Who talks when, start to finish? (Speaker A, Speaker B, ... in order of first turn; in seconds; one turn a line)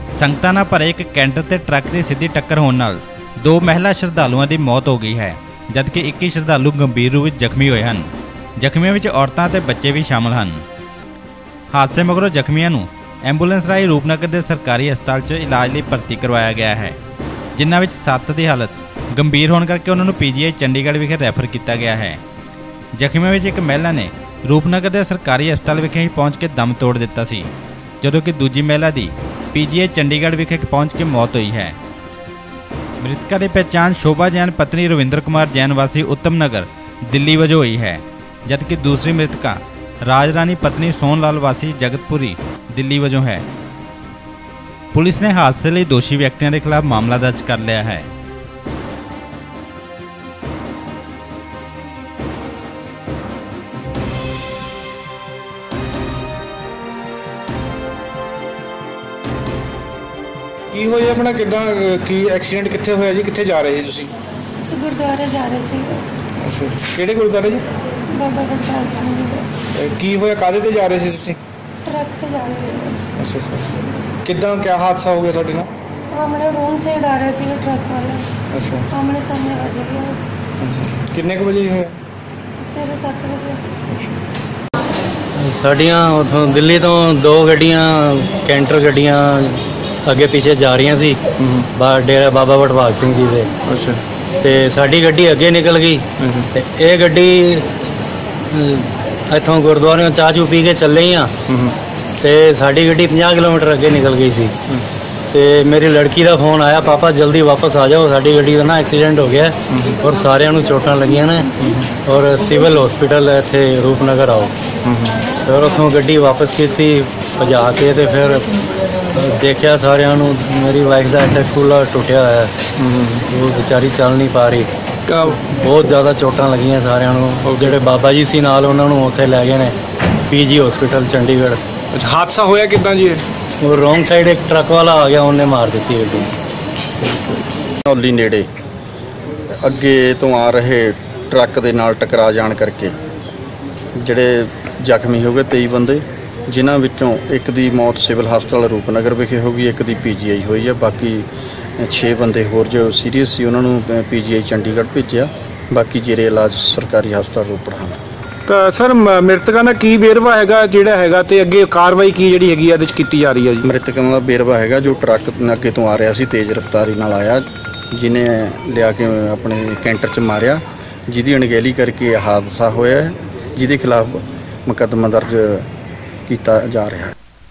Speaker A: 0.2-8.1
Speaker A: 8.6-10.6
Speaker A: 11.7-17.0
Speaker A: 17.6-22.2
Speaker A: 23.0-27.5
Speaker A: 28.0-31.8
Speaker A: 33.0-43.5
Speaker A: 44.9-48.1
Speaker B: 60.7-64.2
Speaker C: 64.6-66.0
Speaker B: 66.4-67.6
Speaker C: 68.1-69.5
Speaker B: 69.7-71.4
Speaker C: 71.8-73.0
Speaker B: 73.2-75.7
Speaker C: 76.1-78.3
Speaker B: 78.5-78.9
Speaker C: 79.0-80.2
Speaker B: 80.6-82.0
Speaker C: 82.7-83.6
Speaker D: 85.3-91.2
Speaker B: 91.4-91.7
Speaker D: 91.7-93.5
Speaker B: 93.7-94.0
Speaker D: 94.4-97.7
Speaker B: 96.2-96.5
Speaker D: 98.5-101.3
Speaker B: 101.5-101.7
Speaker D: 102.2-104.5
Speaker D: 105.3-111.5
Speaker B: 111.6-111.9
Speaker D: 112.0-114.5
Speaker B: 114.8-115.2
Speaker D: 115.4-118.5
Speaker D: 119.1-122.5
Speaker B: 122.8-123.2
Speaker D: 123.3-124.7
Speaker B: 125.1-125.4
Speaker D: 125.5-129.8
Speaker D: 130.3-131.6
Speaker B: 131.9-133.2
Speaker D: 133.6-136.3
Speaker E: 137.9-138.5
Speaker E: 139.6-143.0
Speaker E: 144.0-151.3
Speaker E: 151.8-158.0
Speaker B: 158.5-163.7
Speaker E: 163.6-175.7
Speaker E: 176.3-177.1